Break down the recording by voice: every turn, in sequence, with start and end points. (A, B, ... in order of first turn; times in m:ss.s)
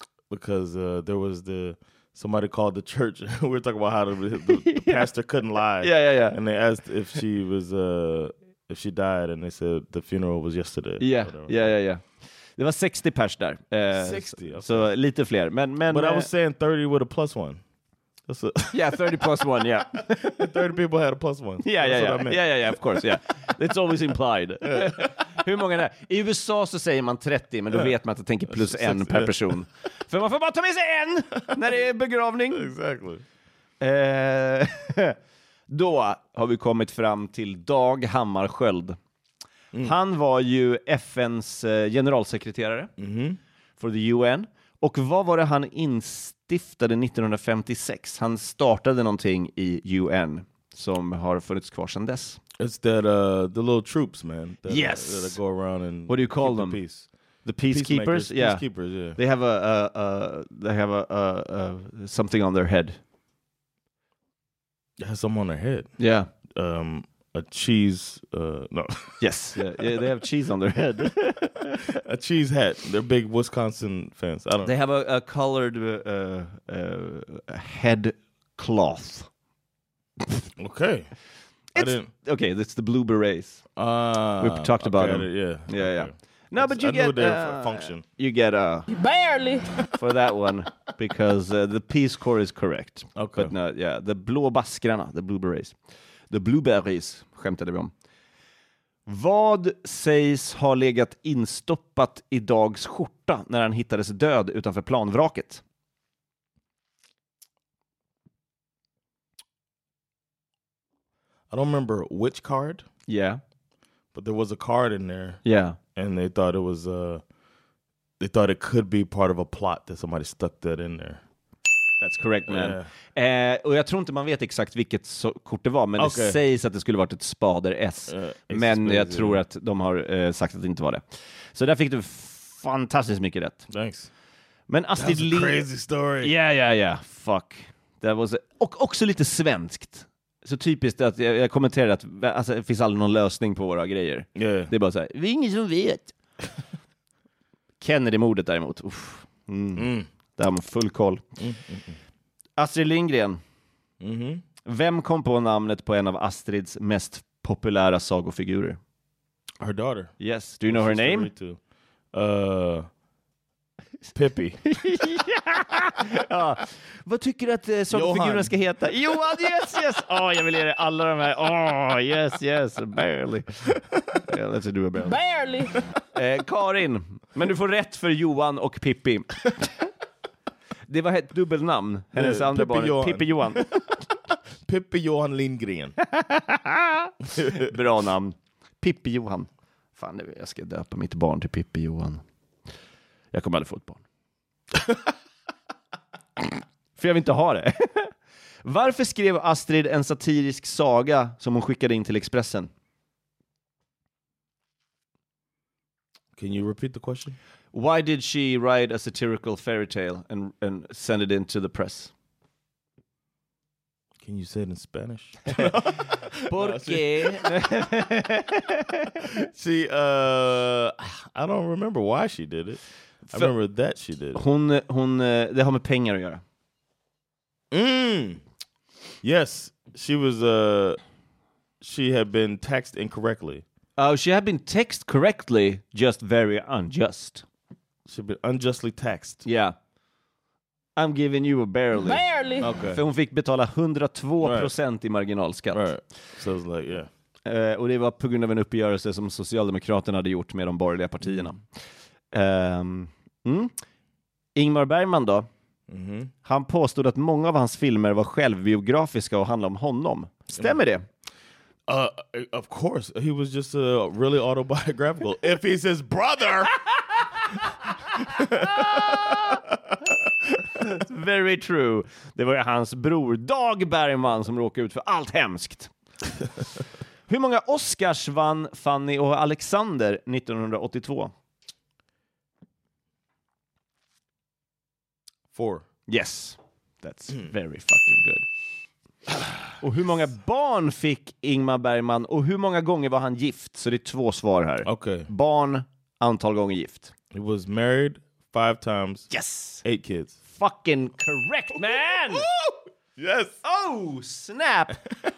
0:00.3-0:11.7 A
0:04.6-0:05.1 B
0:05.8-0:06.4 B
0:11.0-0:12.0 B
0:12.6-0:16.3 B
0:13.9-0:14.9 A
0:15.9-0:17.6 A
0:18.3-0:23.2 A
0:18.7-0:20.5 B
0:21.6-0:32.7 B
0:24.8-0:25.1 A
0:28.5-0:29.6 A
0:32.5-0:33.2 A
0:33.8-0:35.2 B
0:35.7-0:39.0 B
0:39.8-0:42.9 B
0:43.0-0:43.4 A
0:43.8-0:52.4 B
0:52.6-0:57.1 A
0:54.7-0:55.4 B
0:56.1-0:56.8 B
0:57.4-1:03.0 B
0:57.6-0:59.2 A
1:05.0-1:05.9 A
1:06.0-1:06.3 B
1:06.5-1:10.1 A
1:09.2-1:11.9 B
1:11.9-1:14.7 A
1:14.6-1:19.3 B
1:20.6-1:21.1 A
1:21.7-1:23.6 B
1:21.7-1:22.1 A
1:23.8-1:28.0 A
1:24.4-1:28.9 B
1:28.9-1:29.7 C
1:29.9-1:35.8 B
1:33.2-1:33.5 A
1:36.3-1:37.9 B
1:39.0-1:45.6 B
1:51.5-1:52.8 A
1:53.1-1:53.4 B
1:54.1-1:55.4 A
1:55.4-1:55.8 B
1:55.9-1:57.2 A
1:58.2-2:01.2 A
2:02.0-2:13.7 B
2:02.4-2:02.9 A
2:06.0-2:06.4 A
2:08.1-2:09.4 A
2:13.7-2:14.1 A
2:14.7-2:15.6 B
2:15.0-2:16.3 A
2:16.2-2:26.1 B
2:24.3-2:24.7 A
2:27.8-2:31.2 B
2:29.8-2:30.1 A
2:31.4-2:32.0 A
2:32.6-2:33.4 B
2:34.0-2:34.4 A
2:34.6-2:38.8 B
2:39.6-2:40.1 A
2:40.2-2:41.3 B
2:40.6-2:41.6 A
2:42.1-2:42.9 A
2:44.1-2:44.6 A
2:44.7-2:53.7 B
2:47.9-2:48.5 A
2:54.2-2:55.2 B
2:55.0-2:55.7 C
2:56.1-2:59.7 B
3:00.9-3:03.6 B
3:02.1-3:06.0 A
3:06.1-3:12.2 B
3:07.3-3:07.7 A
3:13.3-3:14.0 B
3:17.0-3:18.1 B
3:18.6-3:22.7 B
3:26.4-3:27.4 A
3:27.7-3:32.1 B
3:34.2-3:37.5 A
3:35.6-3:39.2 B
3:39.4-3:44.4 A
3:44.3-3:46.4 B
3:47.7-3:48.4 A
3:49.2-3:51.0 A
3:51.8-3:53.6 A
3:54.0-3:57.4 B
3:58.0-3:59.4 A
3:59.4-3:59.8 B
4:01.0-4:02.2 B
4:01.9-4:02.7 C
4:02.6-4:03.0 A
4:02.9-4:05.9 B
4:04.4-4:04.7 A
4:05.7-4:07.1 A
4:07.4-4:11.6 B
4:12.3-4:13.7 B
4:14.5-4:15.5 B
4:15.9-4:16.3 A
4:16.4-4:21.0 B
4:21.9-4:27.6 A
4:28.1-4:30.1 A
4:28.6-4:29.5 B
4:30.7-4:35.9 B
4:37.3-4:41.3 B
4:45.5-4:45.8 A
4:46.1-4:48.4 B
4:49.8-4:57.1 B
4:54.8-4:55.3 A
4:57.3-4:59.3 A
4:59.3-4:59.8 B
4:59.8-5:00.4 A
5:00.5-5:02.4 B
5:01.9-5:03.6 A
5:03.6-5:05.0 B